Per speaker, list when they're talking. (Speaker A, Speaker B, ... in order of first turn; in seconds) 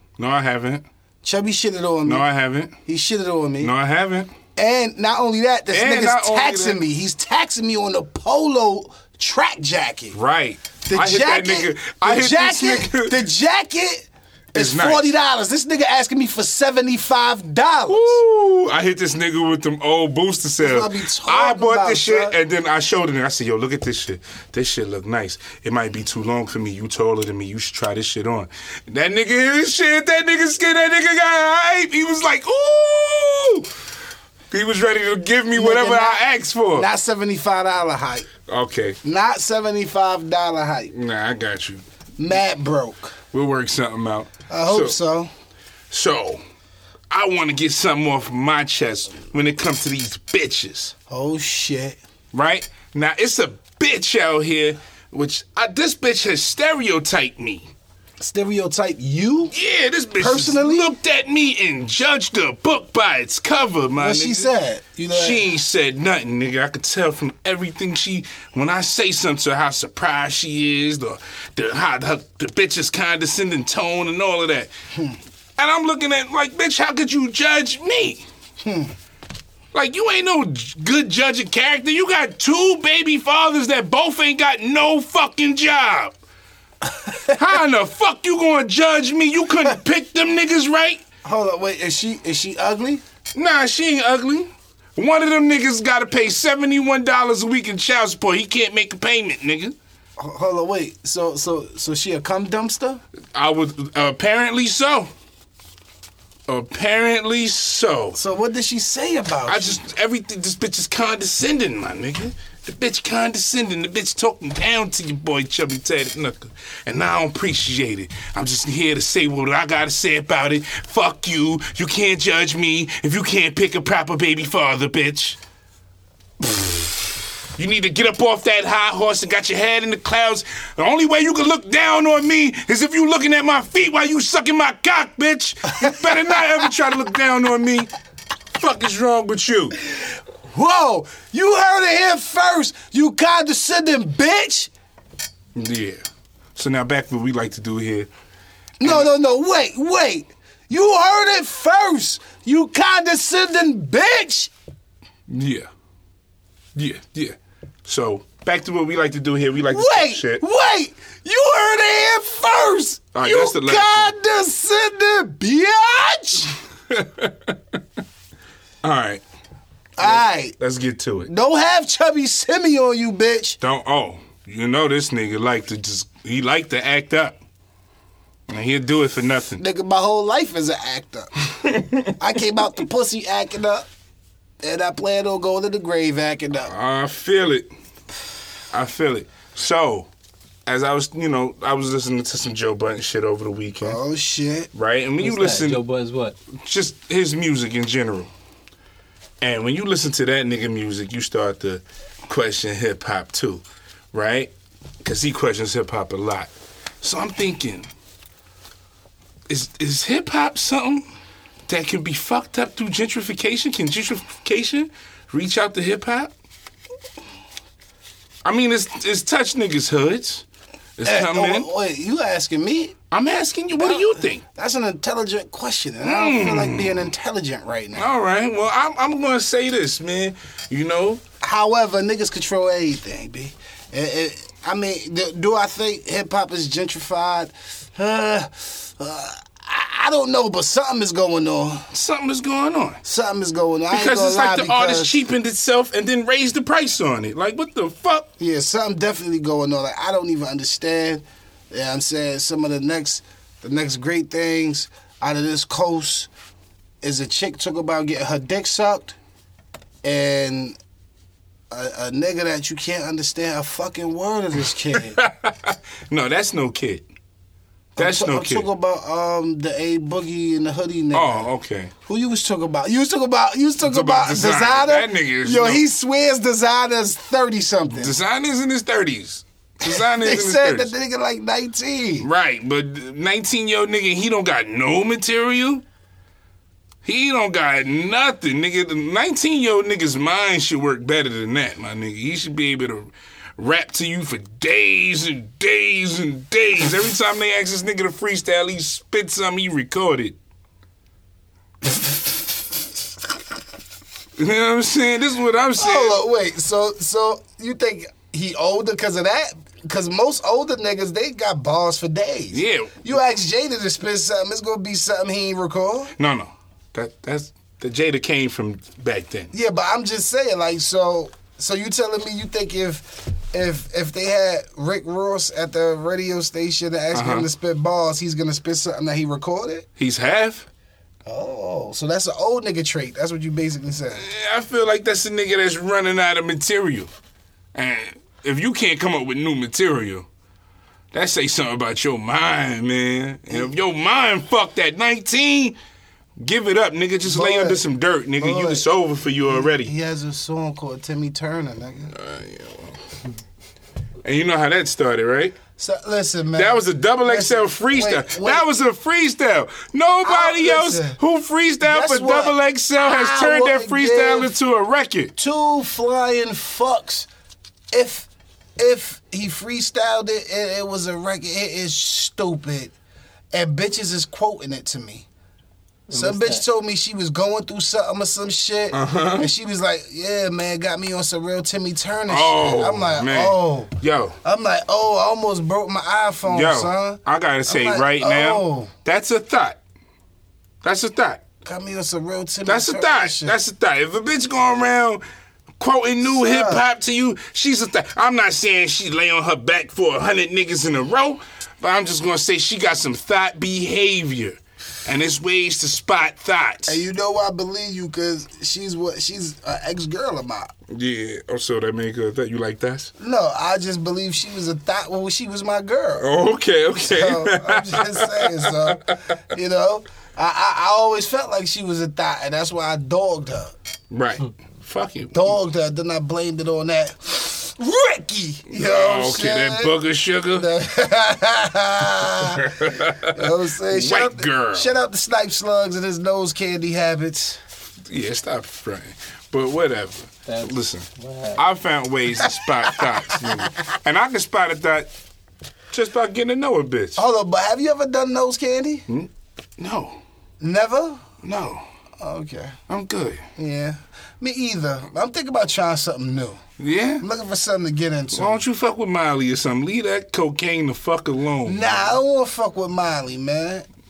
Speaker A: 0.2-0.8, 2.1-2.8, 3.6-4.3, 5.7-6.8, 10.1-13.2, 14.5-15.1, 17.9-33.7, 34.5-36.9, 38.5-39.0, 40.9-41.8, 43.3-45.0, 45.9-46.4, 47.1-51.0, 52.3-57.7, 59.5-64.5, 65.1-74.7, 75.6-78.2, 79.7-86.2, 87.3-91.0, 93.3-99.8, 103.3-105.1, 106.5-108.2, 109.5-125.4, 126.5-126.9, 127.6-137.9, 138.5-139.8, 145.6-146.0, 146.6-148.1, 148.8-149.1, 155.3-155.7, 156.8-160.4, 163.1-164.1, 166.9-167.6, 168.8-169.2, 170.0-171.3, 173.6-177.4, 178.5-179.6, 181.6-182.1, 186.7-187.7, 188.7-190.1, 190.7-194.0, 194.7-195.8, 196.6-198.3, 199.4-204.5, 205.0-207.9, 209.5-211.1, 211.7-216.3, 218.4-220.4, 221.0-221.7, 223.1-224.4, 226.0-227.0, 228.0-231.2, 241.9-243.0, 243.9-248.3, 264.9-267.1, 268.0-268.7, 271.1-271.9, 273.8-275.8, 277.9-280.9, 282.2-285.8, 287.0-300.4, 304.4-306.2, 312.5-313.1, 316.2-319.5, 327.1-327.5, 330.0-330.7, 334.1-337.1, 337.8-340.3, 341.1-345.8, 346.4-349.9, 352.1-353.0, 354.2-355.6, 356.6-365.3, 378.9-379.5, 382.3-384.4, 386.5-389.8, 390.8-391.4, 392.7-395.2, 395.8-407.0, 410.9-413.1, 416.2-419.0, 424.1-425.5, 428.7-430.7, 432.4-434.9, 438.1-445.1, 445.9-447.2, 449.1-450.2, 451.4-451.8, 452.9-453.4, 456.8-457.2, 458.3-462.2
Speaker B: 1.2-2.3, 2.9-3.7, 4.6-10.2, 10.8-18.2, 20.6-22.4, 35.5-38.3, 39.0-40.9, 42.2-43.2, 44.5-45.3, 51.1-52.0, 58.2-59.5, 60.2-60.9, 64.0-65.5, 78.6-78.9, 87.0-87.3, 91.2-93.0, 100.2-103.0, 108.1-109.8, 135.8-136.7, 140.5-144.7, 148.8-154.5, 159.7-166.6, 170.0-170.6, 171.3-173.6, 179.6-181.3, 182.2-183.9, 184.6-186.7, 193.8-194.7, 221.0-223.0, 223.8-228.1, 231.4-241.9, 243.0-245.2, 248.4-256.3, 257.0-259.2, 260.0-260.8, 261.7-265.2, 268.0-271.5, 272.1-278.1, 279.8-282.3, 305.8-316.1, 319.5-329.9, 331.3-334.2, 347.2-347.8, 348.4-348.9, 349.5-352.1, 355.8-358.7, 360.2-361.2, 361.8-364.6, 365.4-367.3, 367.9-372.9, 373.5-375.3, 376.1-388.9, 391.6-393.6, 396.2-396.9, 406.9-410.7, 413.2-416.3, 416.9-423.7, 425.3-429.9, 430.6-437.6, 442.4-443.6, 447.2-449.1, 450.6-451.3, 452.2-452.8, 453.6-456.6, 457.2-458.6, 461.6-463.9
Speaker C: 195.2-196.4, 376.1-376.6, 440.5-441.6